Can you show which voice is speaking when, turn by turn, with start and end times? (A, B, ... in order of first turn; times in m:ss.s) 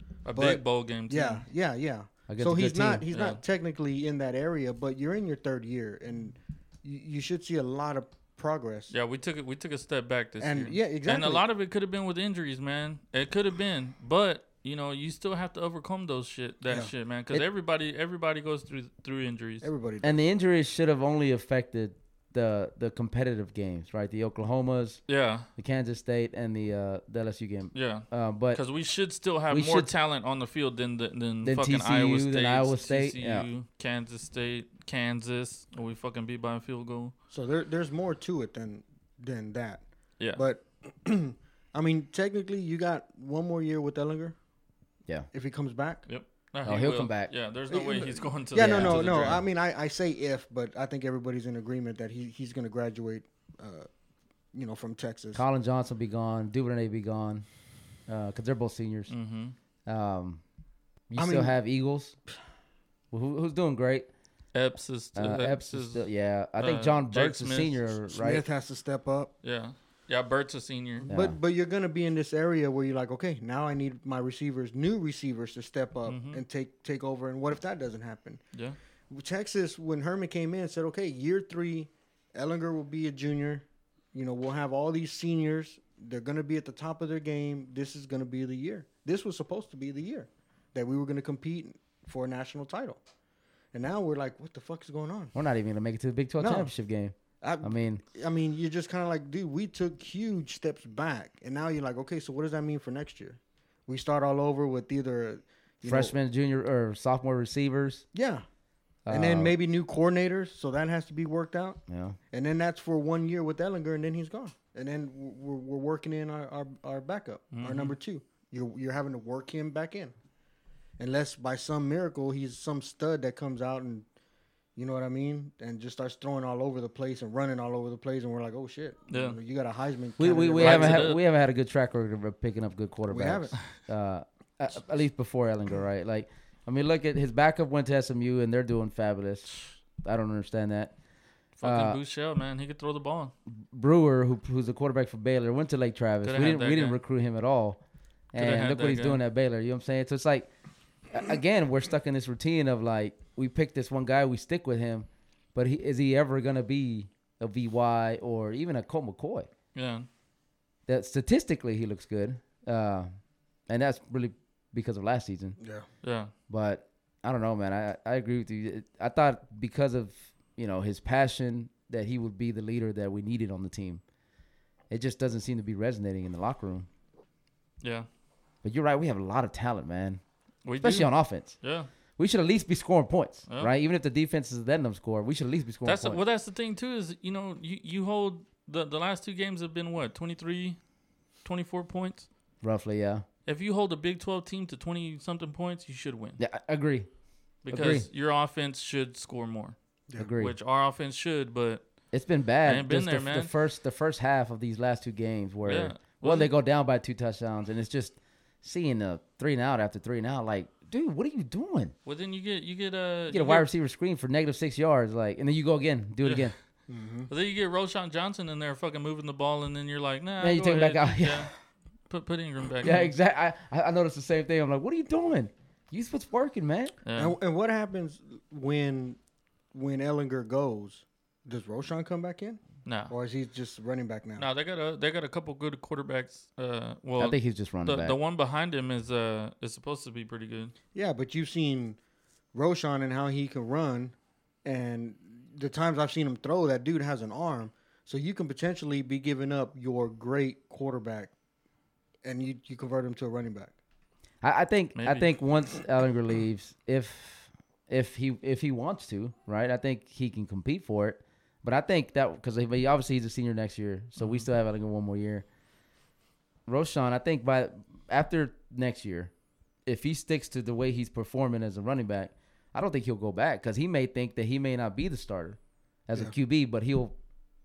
0:00.2-0:01.4 A
0:00.3-0:08.9 B
0:02.3-0:03.1 C
0:03.1-0:03.4 A
0:08.9-0:19.7 A
0:10.4-0:11.4 B
0:19.6-0:20.2 B
0:20.0-0:25.0 C
0:25.1-0:25.5 A
0:25.6-0:28.6 C
0:27.7-0:37.1 A
0:29.5-0:29.9 C
0:31.4-0:33.5 C
0:37.3-0:44.4 B
0:45.3-0:46.0 B
0:46.1-0:49.4 A
0:46.6-0:47.3 C
0:47.7-0:53.9 B
0:48.6-0:49.4 C
0:54.5-0:55.4 B
0:55.3-0:57.4 C
0:58.1-0:59.1 C
0:59.1-0:59.6 A
0:59.9-1:00.4 C
1:01.1-1:02.2 C
1:01.2-1:01.6 B
1:03.1-1:04.1 C
1:04.5-1:07.9 A
1:05.2-1:08.4 C
1:08.1-1:09.3 B
1:09.4-1:11.1 A
1:11.1-1:11.4 C
1:11.1-1:18.4 B
1:16.1-1:16.4 A
1:19.1-1:33.0 B
1:33.7-1:35.4 B
1:35.4-1:38.0 C
1:36.4-1:36.7 B
1:37.4-1:46.1 B
1:45.8-1:48.0 C
1:48.1-1:48.4 B
1:49.1-1:49.6 C
1:49.1-2:00.1 B
1:51.9-1:52.2 C
1:57.5-1:58.0 A
2:01.0-2:04.0 B
2:04.8-2:11.1 B
2:09.1-2:09.4 A
2:10.2-2:20.9 C
2:10.6-2:11.2 A
2:13.1-2:13.6 B
2:21.6-2:23.3 A
2:21.6-2:22.0 C
2:23.5-2:27.8 C
2:26.2-2:27.0 A
2:28.3-2:30.5 C
2:28.4-2:29.2 A
2:31.1-2:39.5 C
2:39.8-2:40.1 A
2:40.9-2:43.1 C
2:43.7-2:45.6 C
2:45.6-2:45.9 B
2:46.0-2:46.3 A
2:46.5-2:54.0 C
2:54.9-2:56.9 C
2:57.8-2:58.1 A
2:58.6-3:00.2 C
3:00.6-3:01.9 A
3:00.8-3:01.6 C
3:02.2-3:06.2 C
3:05.8-3:10.8 A
3:11.4-3:12.3 A
3:12.6-3:13.2 C
3:13.5-3:16.4 A
3:16.4-3:17.1 C
3:17.6-3:19.8 A
3:17.7-3:18.1 C
3:20.2-3:20.6 C
3:20.4-3:21.8 A
3:22.1-3:31.9 C
3:22.6-3:23.5 A
3:25.6-3:26.5 A
3:32.1-3:33.7 A
3:33.3-3:36.5 C
3:36.2-3:36.5 A
3:36.9-3:37.3 B
3:37.3-3:41.5 A
3:40.4-3:41.5 C
3:42.1-3:43.1 A
3:42.8-3:46.9 C
3:47.0-3:47.4 A
3:47.2-3:49.2 B
3:49.7-3:54.5 B
3:52.9-3:53.1 A
3:54.4-4:00.7 A
3:57.2-3:58.2 C
4:00.9-4:02.0 B
4:02.5-4:11.3 B
4:12.2-4:13.8 B
4:14.4-4:25.4 C
4:15.0-4:15.3 A
4:24.2-4:24.5 A
4:26.7-4:29.3 C
4:29.9-4:37.2 C